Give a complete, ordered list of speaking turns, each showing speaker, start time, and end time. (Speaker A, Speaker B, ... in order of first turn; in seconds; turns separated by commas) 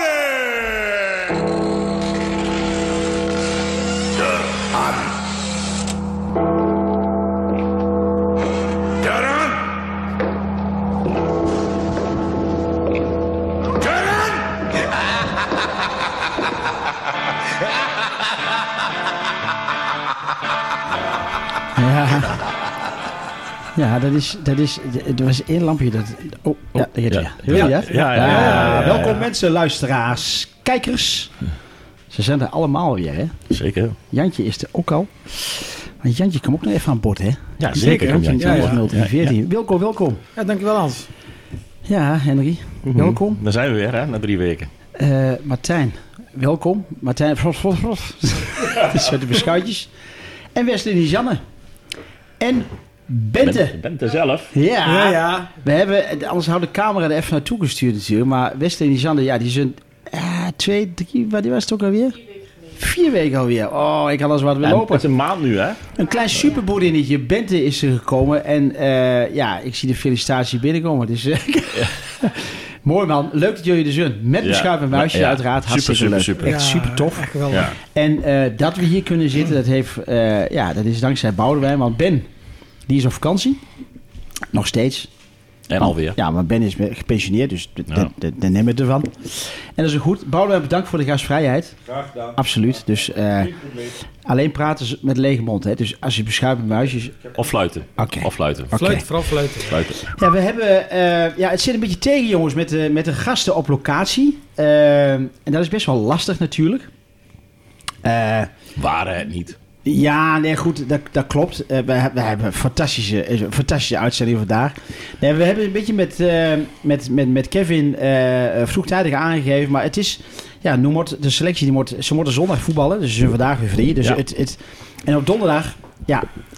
Speaker A: 21.8-22.4, Speaker A: 23.8-31.3, Speaker B: 26.8-29.2, Speaker C: 27.5-29.3, Speaker A: 32.1-33.4, Speaker B: 33.5-34.0, Speaker A: 34.1-40.2, Speaker B: 37.6-39.3, Speaker C: 37.7-38.8, Speaker C: 40.4-41.1, Speaker A: 41.9-43.4, Speaker B: 42.9-44.7, Speaker A: 45.0-49.9, Speaker A: 50.5-51.4, Speaker A: 52.4-53.8, Speaker B: 53.4-54.5, Speaker A: 54.5-65.1, Speaker C: 54.9-55.5, Speaker B: 64.6-65.8, Speaker A: 65.9-82.2, Speaker B: 74.4-76.6, Speaker C: 76.4-77.7, Speaker B: 77.5-77.8, Speaker A: 82.9-83.6, Speaker A: 84.5-85.1, Speaker B: 85.7-86.2, Speaker A: 85.8-91.8, Speaker D: 91.8-94.0, Speaker A: 92.3-93.5, Speaker A: 94.2-97.1, Speaker B: 97.4-98.8, Speaker A: 98.0-99.0, Speaker C: 98.7-99.8, Speaker B: 99.7-100.0, Speaker A: 100.1-106.9, Speaker A: 108.0-108.5, Speaker B: 108.8-109.6, Speaker A: 109.8-126.3